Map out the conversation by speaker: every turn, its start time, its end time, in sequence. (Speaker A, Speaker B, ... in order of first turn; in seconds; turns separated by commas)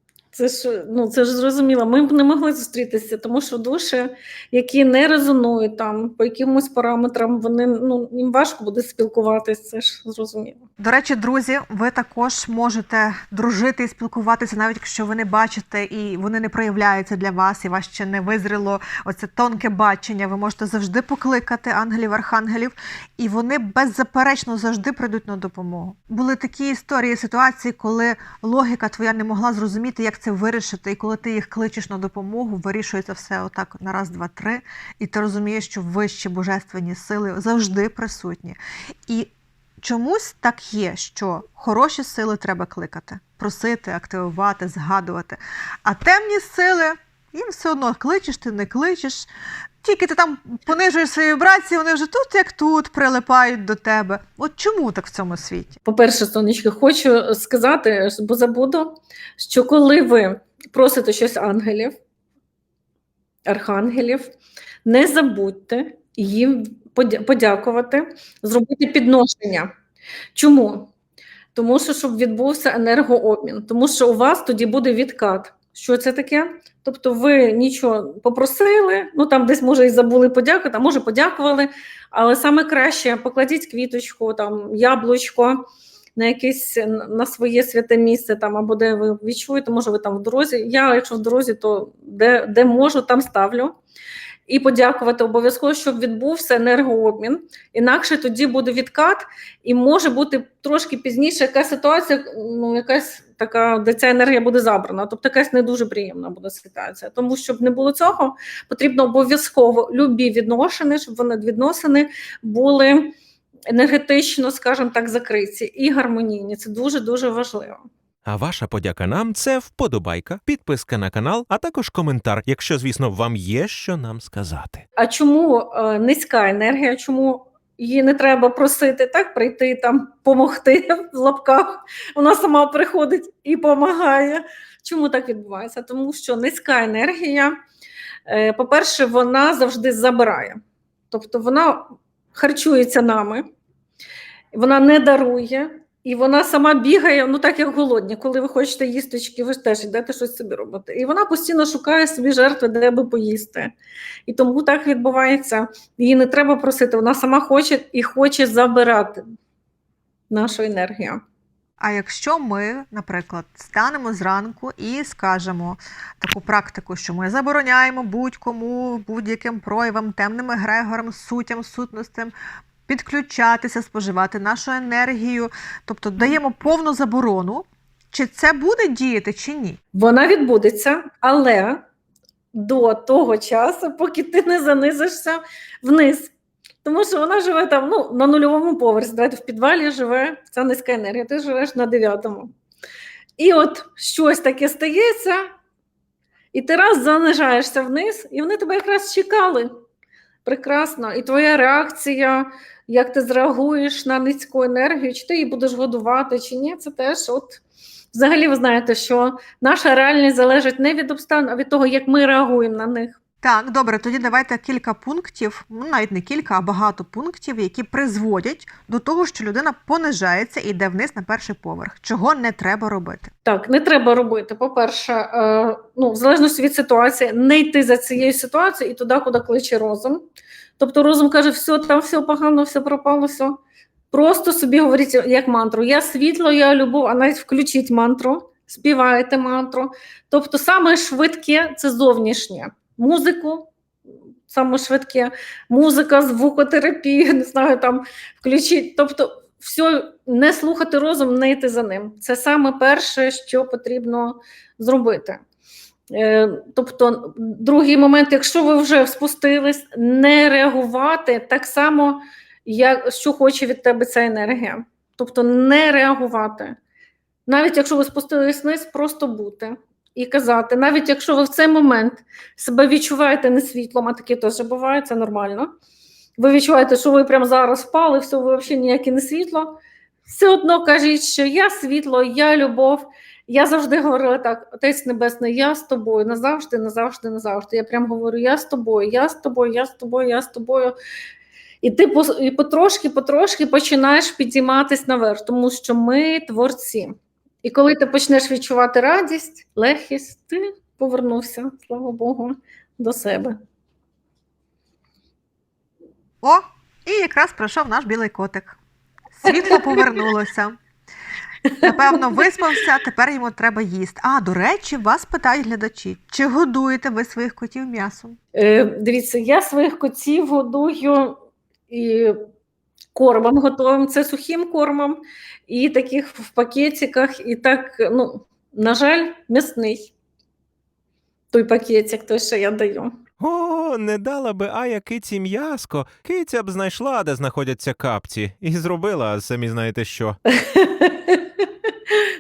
Speaker A: 0.3-10.6, Speaker B: 10.8-49.3, Speaker B: 49.8-55.8, Speaker A: 55.9-62.0, Speaker A: 63.5-64.3, Speaker A: 64.8-69.7, Speaker A: 70.3-70.9, Speaker A: 71.5-85.6, Speaker A: 86.2-93.8, Speaker A: 94.5-113.1, Speaker A: 113.7-117.8, Speaker C: 118.3-124.8, Speaker A: 125.0-137.6, Speaker A: 138.3-140.6, Speaker A: 141.1-143.5, Speaker A: 144.5-153.7, Speaker A: 154.3-159.2, Speaker A: 160.3-161.2, Speaker B: 161.8-172.3, Speaker B: 172.9-179.8, Speaker A: 179.9-181.8, Speaker A: 182.5-186.3, Speaker A: 186.8-192.5, Speaker A: 193.4-195.4, Speaker A: 196.5-199.7, Speaker A: 200.4-207.6, Speaker A: 208.1-213.2, Speaker B: 213.4-223.3, Speaker A: 223.4-230.2, Speaker A: 230.8-233.6, Speaker A: 234.1-243.7, Speaker A: 244.5-255.4, Speaker A: 256.1-266.8, Speaker A: 267.5-275.7, Speaker A: 276.4-290.9, Speaker A: 291.8-303.6, Speaker B: 306.4-308.8, Speaker B: 309.4-310.8, Speaker A: 309.6-310.0, Speaker A: 311.7-312.4, Speaker B: 311.8-318.4, Speaker A: 318.6-322.4, Speaker A: 323.1-330.1, Speaker A: 331.5-333.2, Speaker C: 333.4-340.4, Speaker A: 340.5-342.2